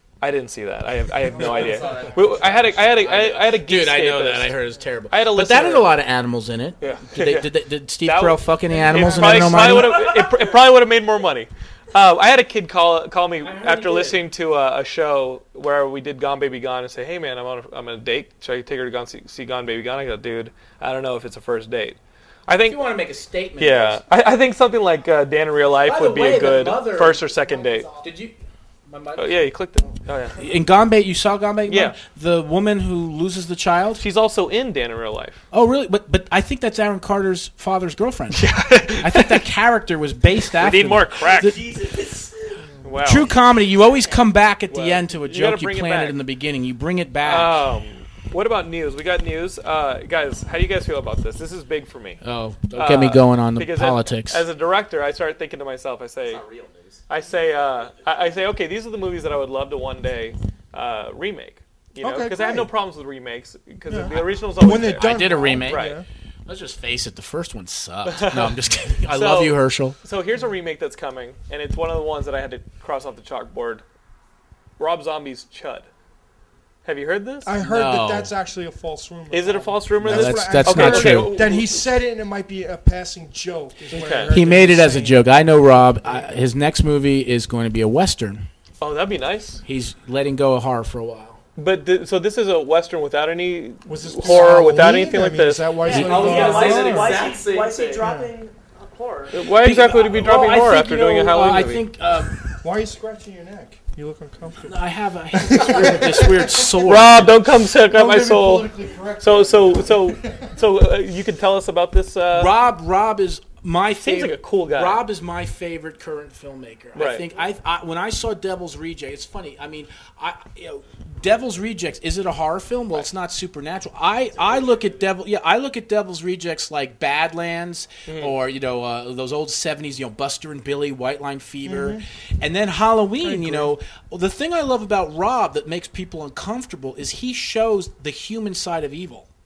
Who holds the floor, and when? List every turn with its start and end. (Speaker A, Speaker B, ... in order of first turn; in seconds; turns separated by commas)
Speaker A: 0.2-4.6, Speaker B: 1.3-3.6, Speaker C: 1.3-2.0, Speaker D: 3.5-10.0, Speaker A: 5.1-6.0, Speaker A: 6.8-22.9, Speaker E: 10.0-10.4, Speaker D: 13.4-14.2, Speaker D: 22.6-24.0, Speaker A: 23.6-27.9, Speaker D: 25.8-27.2, Speaker E: 27.2-28.1, Speaker D: 28.0-28.4, Speaker D: 28.9-29.5, Speaker A: 29.2-30.4, Speaker D: 30.4-34.0, Speaker A: 31.7-32.0, Speaker A: 34.0-35.4, Speaker D: 35.5-41.6, Speaker A: 38.3-39.4, Speaker A: 40.5-41.8, Speaker E: 41.2-42.6, Speaker C: 42.7-43.1, Speaker A: 42.8-43.3, Speaker D: 43.0-47.6, Speaker E: 43.2-44.4, Speaker A: 44.7-46.2, Speaker A: 47.2-52.2, Speaker D: 52.2-54.5, Speaker A: 52.7-56.4, Speaker B: 56.2-57.0, Speaker A: 57.1-65.1, Speaker C: 62.0-62.7, Speaker C: 63.9-66.0, Speaker D: 64.8-65.9, Speaker A: 65.7-66.0, Speaker D: 66.5-70.0, Speaker A: 68.1-73.8, Speaker A: 74.8-75.9, Speaker A: 76.8-77.5, Speaker C: 77.4-85.3, Speaker D: 77.6-78.3, Speaker A: 79.3-81.8, Speaker D: 80.0-81.4, Speaker A: 83.9-84.3, Speaker D: 84.3-88.5, Speaker A: 88.8-89.6, Speaker D: 89.7-91.4, Speaker A: 91.6-95.9, Speaker C: 93.9-97.2, Speaker B: 95.8-98.0, Speaker E: 95.8-99.3, Speaker C: 98.0-98.3, Speaker A: 99.3-101.9, Speaker D: 99.5-102.4, Speaker C: 102.6-104.8, Speaker D: 104.7-107.3, Speaker C: 105.3-106.9, Speaker A: 106.8-112.6, Speaker C: 107.9-110.5, Speaker D: 112.3-139.3, Speaker A: 114.0-115.0, Speaker A: 117.0-117.3, Speaker B: 124.4-125.0, Speaker A: 128.1-128.4, Speaker C: 131.6-132.1, Speaker C: 133.2-133.7